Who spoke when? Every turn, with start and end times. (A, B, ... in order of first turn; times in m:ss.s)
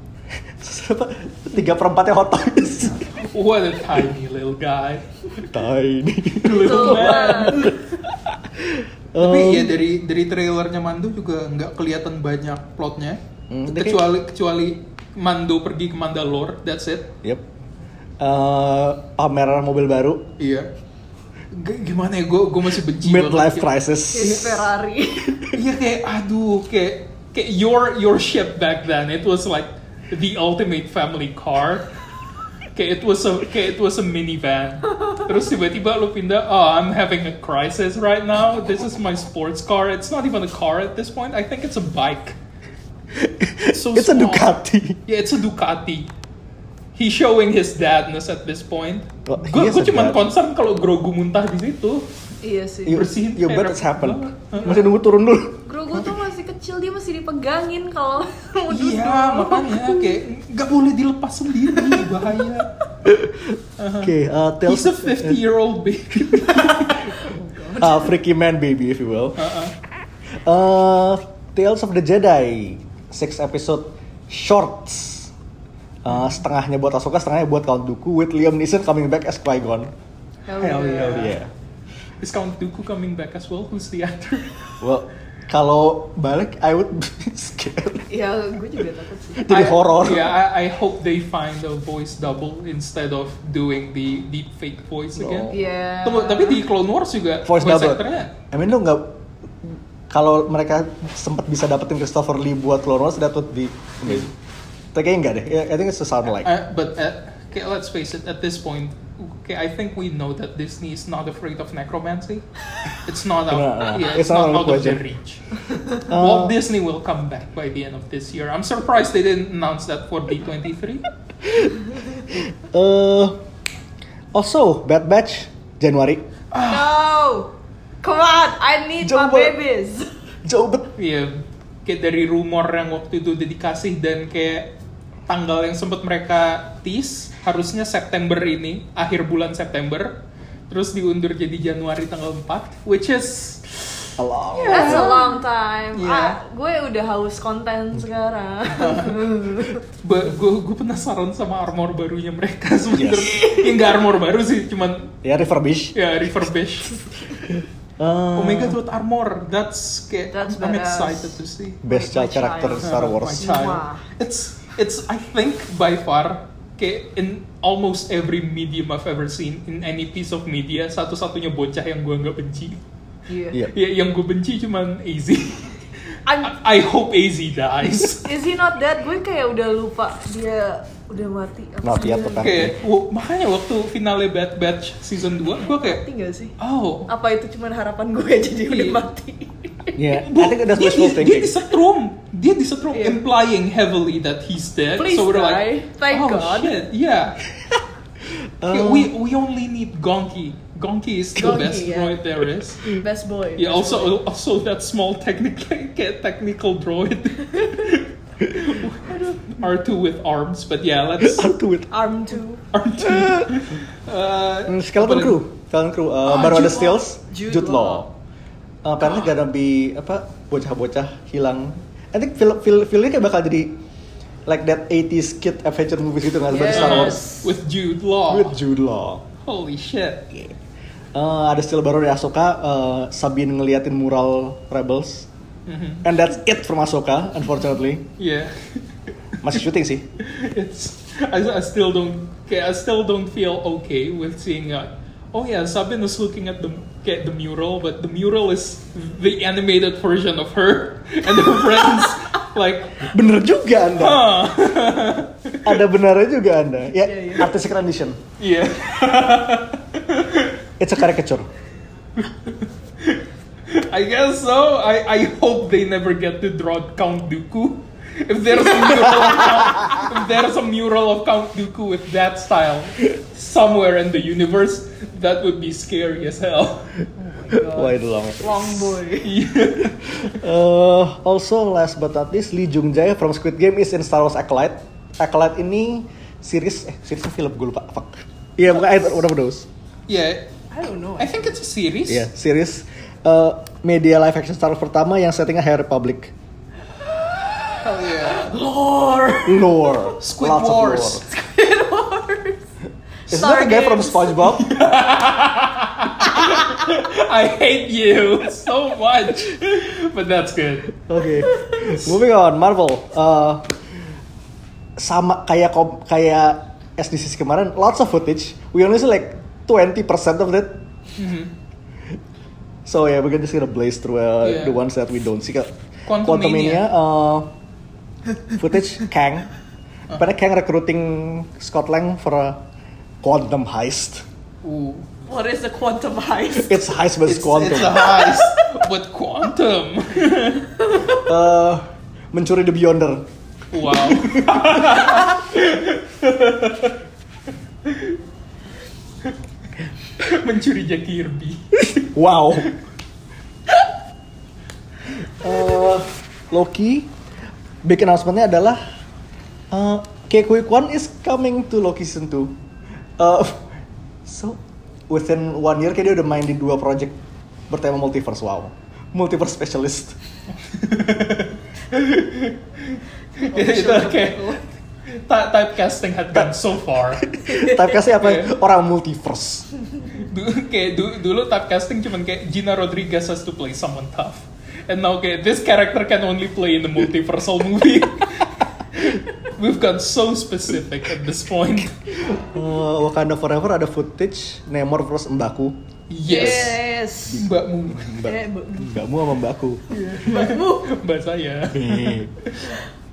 0:00.6-0:03.1 A
0:03.1-0:05.5 B
0:05.4-0:09.8 A
0:06.4-0:07.8 B
0:06.4-0:07.7 C
0:09.2-0:17.1 B
0:13.5-0:14.1 A
0:18.2-0:20.3 A
0:20.4-0:20.7 B
0:21.5-0:24.6 B
0:23.0-0:24.6 A
0:24.1-0:25.4 C
0:25.3-0:25.6 A
0:25.5-0:31.9 B
0:32.7-0:42.4 B
0:34.9-0:35.2 C
0:43.1-0:45.0 A
0:43.7-0:44.5 B
0:45.0-0:46.1 B
0:46.9-0:52.1 B
0:49.2-0:50.2 A
0:52.4-0:53.1 C
0:52.8-0:56.1 A
0:52.9-0:54.8 B
0:54.6-0:54.9 C
0:55.6-1:00.2 C
0:58.7-1:02.7 B
1:03.0-1:05.4 A
1:03.8-1:04.1 B
1:04.6-1:07.1 B
1:06.2-1:06.9 A
1:07.0-1:08.1 C
1:07.8-1:09.4 A
1:09.4-1:09.7 B
1:10.4-1:15.3 A
1:16.0-1:19.9 A
1:20.5-1:21.4 C
1:20.6-1:21.4 B
1:20.8-1:21.5 A
1:22.2-1:24.5 B
1:24.8-1:28.1 A
1:28.1-1:29.7 C
1:29.3-1:30.4 A
1:29.5-1:38.3 B
1:35.2-1:35.6 A
1:35.5-1:36.6 C
1:37.4-1:44.3 A
1:44.9-1:46.5 A
1:46.4-2:01.0 B
1:53.5-1:55.0 A
1:56.1-1:56.6 A
2:01.4-2:01.7 A
2:02.3-2:03.4 A
2:04.3-2:06.3 A
2:06.5-2:06.9 B
2:06.6-2:07.5 C
2:08.0-2:10.1 C
2:09.0-2:09.6 A
2:10.4-2:10.9 A
2:11.0-2:14.7 B
2:15.3-2:20.2 B
2:20.7-2:25.4 B
2:24.2-2:25.1 A
2:24.7-2:29.8 C
2:25.9-2:26.4 B
2:28.7-2:29.3 B
2:30.0-2:35.1 B
2:32.9-2:33.4 A
2:33.2-2:33.7 C
2:35.2-2:36.0 A
2:35.9-2:37.0 B
2:37.5-2:38.8 A
2:38.3-2:41.8 B
2:40.3-2:44.0 C
2:41.8-2:43.6 A
2:42.8-2:52.8 B
2:53.3-2:53.6 C
2:53.7-2:55.8 B
2:56.2-2:56.6 C
2:56.4-2:58.3 B
2:58.0-3:02.5 C
3:01.8-3:02.7 A
3:02.4-3:06.0 B
3:05.8-3:06.5 C
3:06.6-3:07.1 B
3:07.1-3:10.0 C
3:08.7-3:09.0 B
3:10.0-3:11.6 A
3:10.2-3:17.4 B
3:12.9-3:13.2 C
3:15.0-3:16.8 C
3:18.6-3:19.1 A
3:18.7-3:22.9 B
3:21.4-3:22.2 C
3:22.9-3:24.2 C
3:23.6-3:31.5 B
3:29.0-3:29.4 C
3:31.2-3:31.9 A
3:31.9-3:32.6 C
3:32.7-3:35.4 B
3:33.0-3:33.5 A
3:34.7-3:38.1 A
3:36.2-3:38.0 C
3:38.8-3:43.8 A
3:44.5-3:47.3 A
3:46.5-3:47.5 C
3:46.7-3:48.6 B
3:48.3-3:49.2 A
3:49.4-3:50.3 B
3:51.1-3:55.3 A
3:55.7-3:56.1 B
3:56.0-3:58.1 A
3:58.2-3:58.8 B
3:59.4-4:00.0 A
4:00.2-4:13.1 B
4:13.0-4:14.3 A
4:14.0-4:15.8 B
4:15.6-4:18.2 A
4:17.0-4:17.5 C
4:18.4-4:20.6 B
4:20.8-4:21.5 A
4:22.2-4:36.9 B
4:28.9-4:30.0 A
4:37.2-4:39.3 C
4:37.5-4:38.9 A
4:39.2-4:40.2 B
4:40.0-4:49.7 A
4:50.1-4:50.5 B
4:50.7-4:51.5 C
4:51.2-4:52.3 B
4:52.1-4:56.3 A
4:57.4-5:00.0 C
4:57.8-4:58.6 B
4:59.4-5:01.2 A
5:00.2-5:01.2 B
5:01.2-5:02.6 C
5:03.3-5:04.5 C
5:03.3-5:04.7 A
5:04.6-5:11.0 B
5:06.3-5:06.9 C
5:11.0-5:13.7 A
5:11.4-5:11.9 C
5:15.0-5:20.8 A
5:21.2-5:21.5 B
5:22.8-5:27.5 A
5:24.4-5:24.8 B
5:26.1-5:26.8 B
5:28.5-5:29.5 A
5:30.1-5:32.6 A
5:33.2-5:34.2 A
5:34.6-5:35.1 B
5:35.3-5:36.8 C
5:36.5-5:38.2 A
5:37.2-5:40.7 B
5:40.9-5:41.2 C
5:41.1-5:43.2 A
5:43.7-5:47.0 B
5:44.1-5:45.2 A
5:47.8-5:48.2 B
5:50.2-5:52.0 B
5:51.9-5:52.7 A
5:55.4-5:57.1 A
5:57.8-5:58.8 A
5:59.7-6:02.6 A
6:03.2-6:03.7 A
6:04.2-6:07.2 A
6:07.7-6:10.2 A
6:10.6-6:18.5 B
6:13.4-6:14.6 C
6:17.2-6:19.7 A
6:17.4-6:17.7 C
6:20.2-6:32.0 B
6:32.2-6:35.8 A
6:36.1-6:36.8 B
6:36.2-6:37.5 C
6:36.3-6:36.7 A
6:37.3-6:39.8 A
6:37.4-6:38.2 B
6:38.2-6:39.0 C
6:39.9-6:42.7 B
6:40.2-6:40.9 C
6:41.7-6:42.3 A